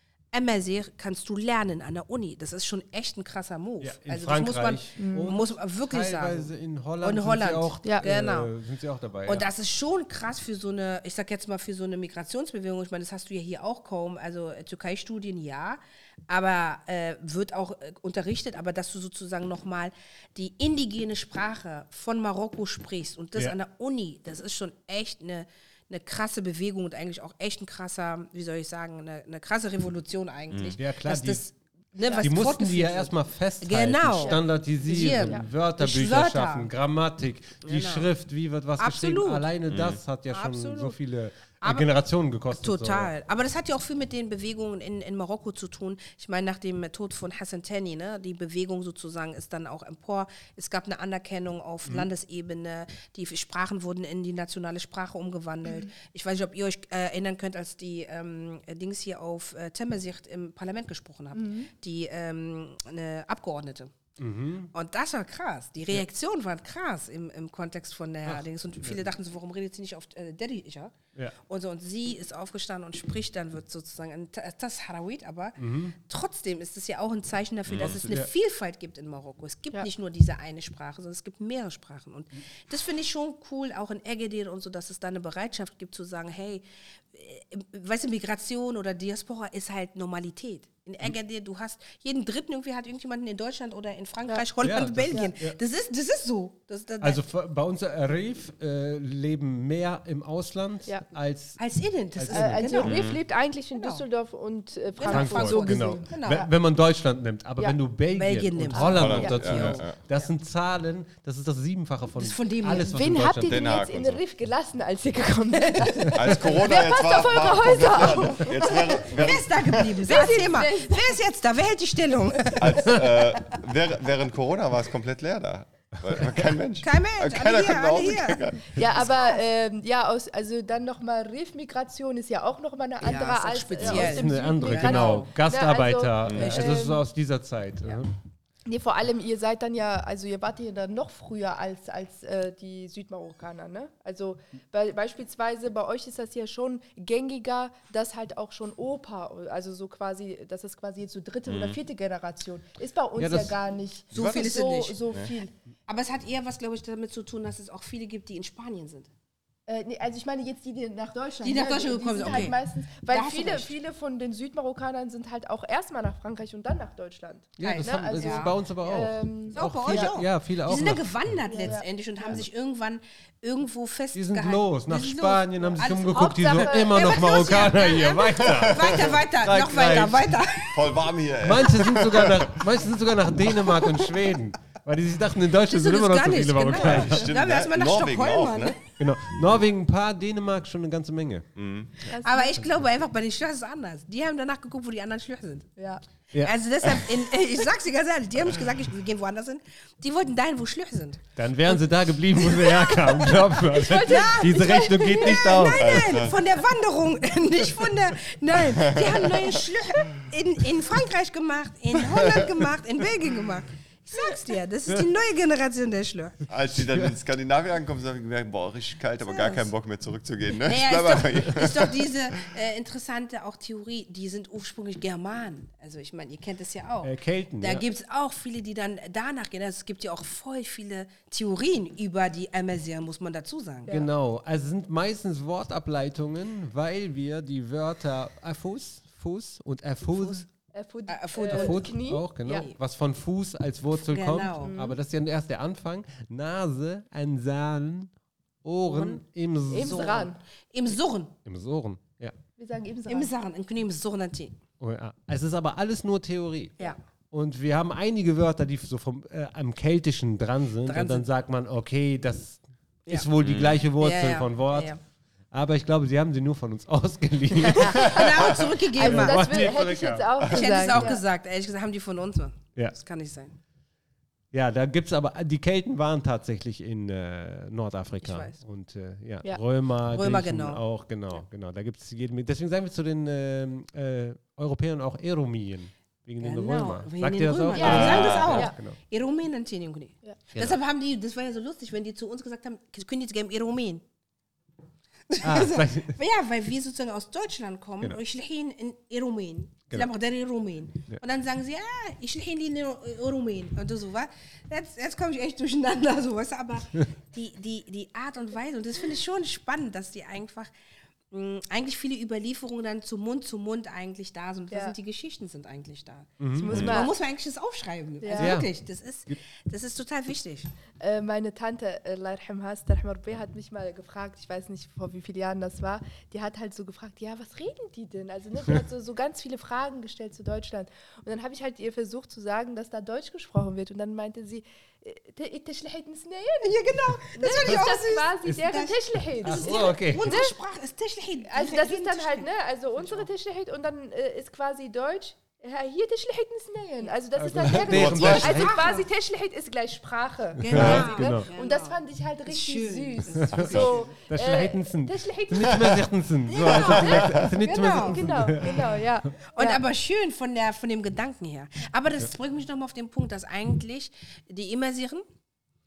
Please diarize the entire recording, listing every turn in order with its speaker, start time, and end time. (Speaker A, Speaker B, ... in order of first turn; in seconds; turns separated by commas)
Speaker A: 0.3-6.5, Speaker B: 3.8-9.5, Speaker C: 5.0-5.4, Speaker A: 7.0-8.5, Speaker A: 9.3-36.7, Speaker D: 30.5-30.8, Speaker B: 30.8-31.4, Speaker B: 32.2-43.1, Speaker A: 37.6-38.1, Speaker A: 38.8-39.5, Speaker D: 39.7-40.0, Speaker A: 40.3-41.0, Speaker A: 41.6-41.9, Speaker A: 42.5-63.9, Speaker C: 61.4-61.7, Speaker B: 64.2-64.7, Speaker A: 64.7-71.0, Speaker B: 68.3-69.1, Speaker A: 71.5-97.2, Speaker B: 75.6-76.0, Speaker D: 77.7-78.0, Speaker B: 77.8-78.3, Speaker B: 94.6-95.6, Speaker B: 97.0-101.6, Speaker A: 101.6-103.1, Speaker B: 102.2-102.9, Speaker C: 102.3-106.5, Speaker D: 102.8-103.2, Speaker A: 103.8-104.0, Speaker A: 105.0-106.5, Speaker B: 105.1-113.6, Speaker A: 108.1-110.3, Speaker D: 108.7-110.0, Speaker A: 112.2-113.0, Speaker C: 112.8-119.0, Speaker D: 113.4-114.2, Speaker D: 116.1-120.1, Speaker A: 118.5-123.0, Speaker C: 120.0-121.2, Speaker D: 122.5-129.1, Speaker A: 126.8-128.5, Speaker C: 128.7-137.1, Speaker A: 133.0-135.3, Speaker B: 133.8-138.1, Speaker D: 136.2-136.5, Speaker A: 136.4-136.9, Speaker C: 138.7-155.5, Speaker D: 151.5-151.8, Speaker B: 153.2-153.6, Speaker A: 154.1-155.0, Speaker B: 154.1-154.5, Speaker A: 155.9-159.1, Speaker C: 159.7-170.2, Speaker A: 161.4-162.6, Speaker A: 163.1-163.7, Speaker B: 167.6-171.1, Speaker A: 167.6-168.6, Speaker A: 169.5-180.9, Speaker C: 171.5-172.4, Speaker B: 174.2-180.4, Speaker C: 175.6-177.6, Speaker D: 178.5-179.1, Speaker D: 180.7-182.7, Speaker B: 181.4-187.3, Speaker A: 183.5-184.2, Speaker A: 185.7-188.8, Speaker D: 186.7-188.8, Speaker B: 189.0-191.5, Speaker D: 191.6-191.9, Speaker C: 192.0-192.6, Speaker A: 192.2-195.7, Speaker C: 195.8-196.0, Speaker A: 196.4-201.8, Speaker B: 201.4-206.2, Speaker A: 202.3-216.4, Speaker C: 203.7-205.8, Speaker D: 205.8-206.4, Speaker D: 208.6-209.6, Speaker D: 216.5-222.0, Speaker A: 219.2-219.7, Speaker A: 220.6-233.9, Speaker B: 227.0-227.8, Speaker B: 233.9-240.4, Speaker A: 240.1-240.4, Speaker C: 240.7-242.7, Speaker A: 241.1-241.9, Speaker B: 241.5-248.1, Speaker A: 242.5-242.8, Speaker A: 243.9-244.8, Speaker C: 244.6-244.9, Speaker B: 248.6-250.2, Speaker A: 248.8-249.2, Speaker C: 249.7-250.4, Speaker A: 249.7-251.3, Speaker B: 251.4-252.3, Speaker C: 252.6-253.3, Speaker A: 253.1-254.6, Speaker B: 254.8-264.9, Speaker A: 260.9-261.3, Speaker D: 263.4-263.8, Speaker A: 264.0-265.0, Speaker B: 265.5-270.4, Speaker A: 267.7-269.8, Speaker C: 267.7-271.2, Speaker A: 270.5-273.6, Speaker B: 274.5-289.0, Speaker A: 278.2-278.6, Speaker A: 280.0-280.8, Speaker A: 286.4-294.0, Speaker C: 287.7-288.8, Speaker D: 287.8-288.7, Speaker A: 295.3-310.7, Speaker B: 295.4-296.1, Speaker A: 311.3-320.7, Speaker B: 316.4-316.7, Speaker C: 316.5-317.1, Speaker D: 316.7-317.0, Speaker C: 318.2-318.6, Speaker B: 318.4-318.7, Speaker C: 321.0-336.8, Speaker A: 336.6-342.5, Speaker C: 337.3-340.5, Speaker B: 339.4-340.4, Speaker C: 341.4-356.0, Speaker A: 343.0-343.3, Speaker B: 347.4-348.8, Speaker D: 347.6-348.7, Speaker A: 348.2-349.1, Speaker A: 350.6-354.0, Speaker B: 350.7-351.5, Speaker B: 353.5-359.0, Speaker D: 353.6-354.0, Speaker A: 356.5-358.5, Speaker C: 356.7-359.8, Speaker D: 357.1-357.5, Speaker A: 359.6-365.2